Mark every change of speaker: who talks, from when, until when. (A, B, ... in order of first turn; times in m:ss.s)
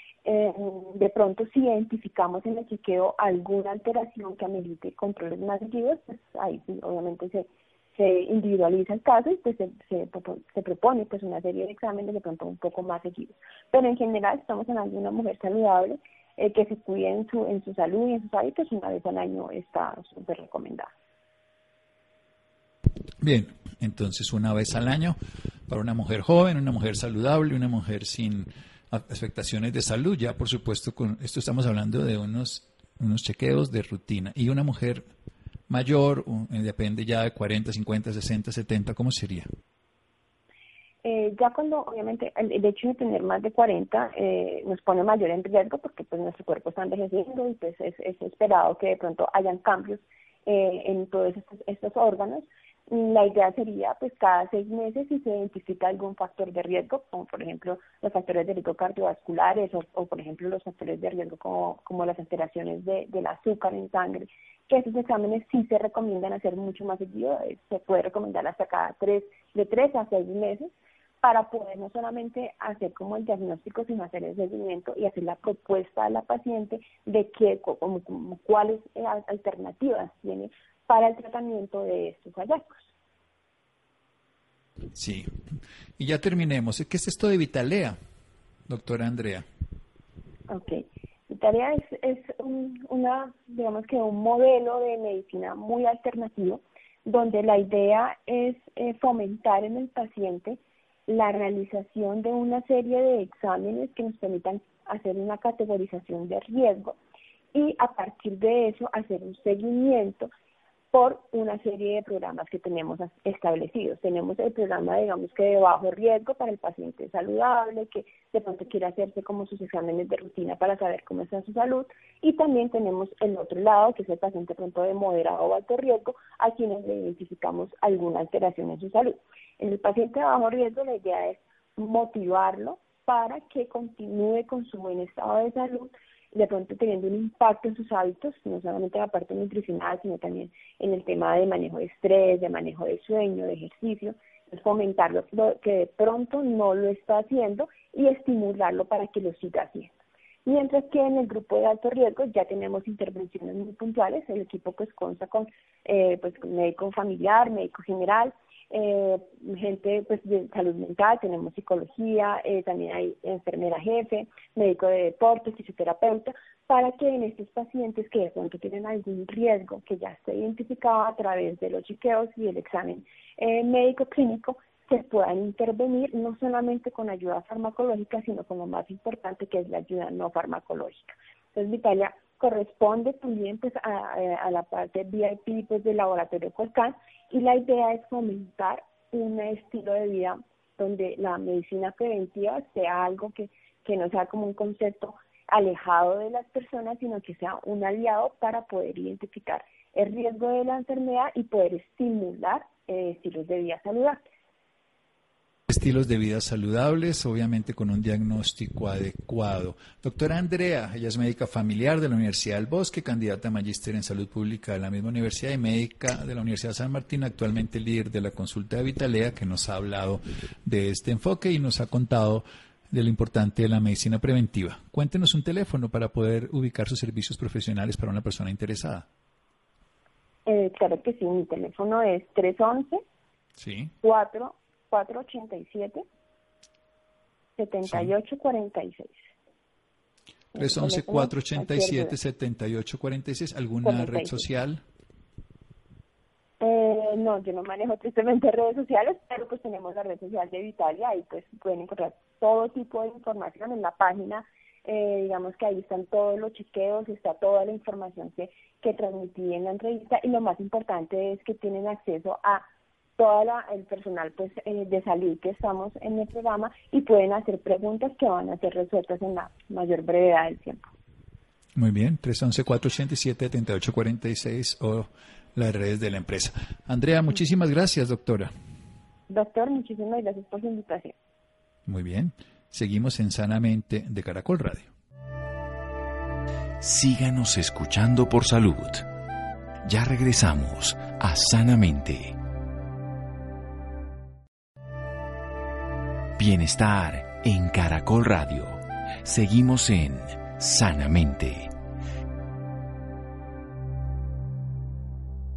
0:00.2-0:20.9 A
0:23.2-0:25.2 B
0:25.7-0:35.1 B
0:35.7-0:39.5 B
0:41.0-1:22.9 A
1:24.9-1:25.3 B
1:26.0-1:28.0 B
1:28.7-1:29.4 B
1:30.5-1:47.0 A
1:47.5-1:50.3 A
1:50.9-2:29.9 A
2:30.4-3:24.2 A
3:25.7-3:49.0 B
3:50.4-3:53.0 A
3:53.6-3:53.9 B
3:54.0-3:56.0 A
3:57.6-3:59.2 A
4:00.5-4:02.1 A
4:00.6-4:04.8 B
4:03.8-4:04.4 A
4:06.6-4:22.6 A
4:23.2-4:30.8 A
4:31.8-4:38.5 B
4:39.3-4:41.1 A
4:41.8-4:44.9 B
4:46.8-4:49.0 C
4:49.8-4:52.4 C
4:56.4-5:01.7 C